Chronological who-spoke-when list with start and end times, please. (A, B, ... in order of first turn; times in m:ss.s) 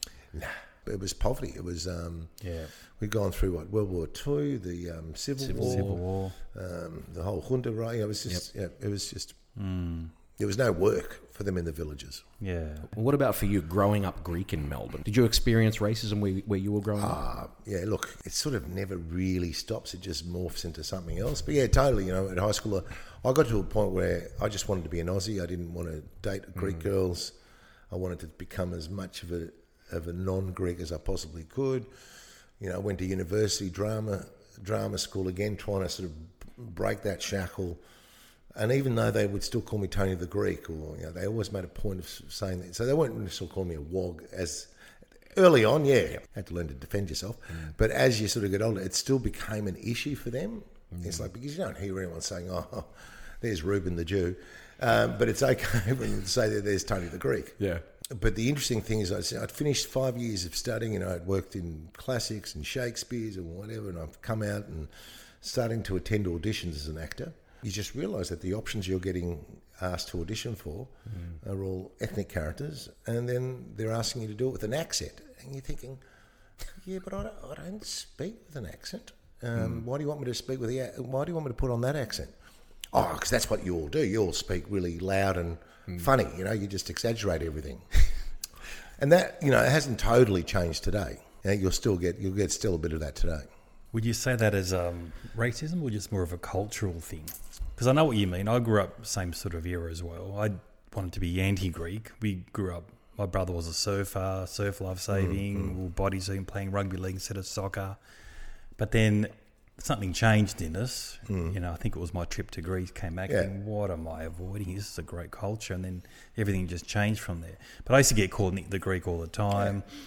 0:00.3-0:02.3 A
0:02.4-0:02.7 B
0:03.0-0:06.0 A
0:05.4-0:06.0 C
0:05.5-0:06.4 B
0:06.5-0:09.4 A
0:09.6-0:10.1 B
0:10.4-0:12.2 A
0:12.4-0:12.9 B
0:12.9-0:17.2 C
0:17.0-0:27.3 A
0:27.9-0:31.9 A
0:32.6-0:37.8 A
0:38.5-0:44.7 A
0:45.3-1:04.9 A
1:05.4-1:16.0 A
1:16.8-1:22.3 A
1:22.9-1:27.9 A
1:29.0-1:33.5 A
1:33.9-1:48.0 B
1:48.8-1:59.9 B
1:51.3-1:51.5 A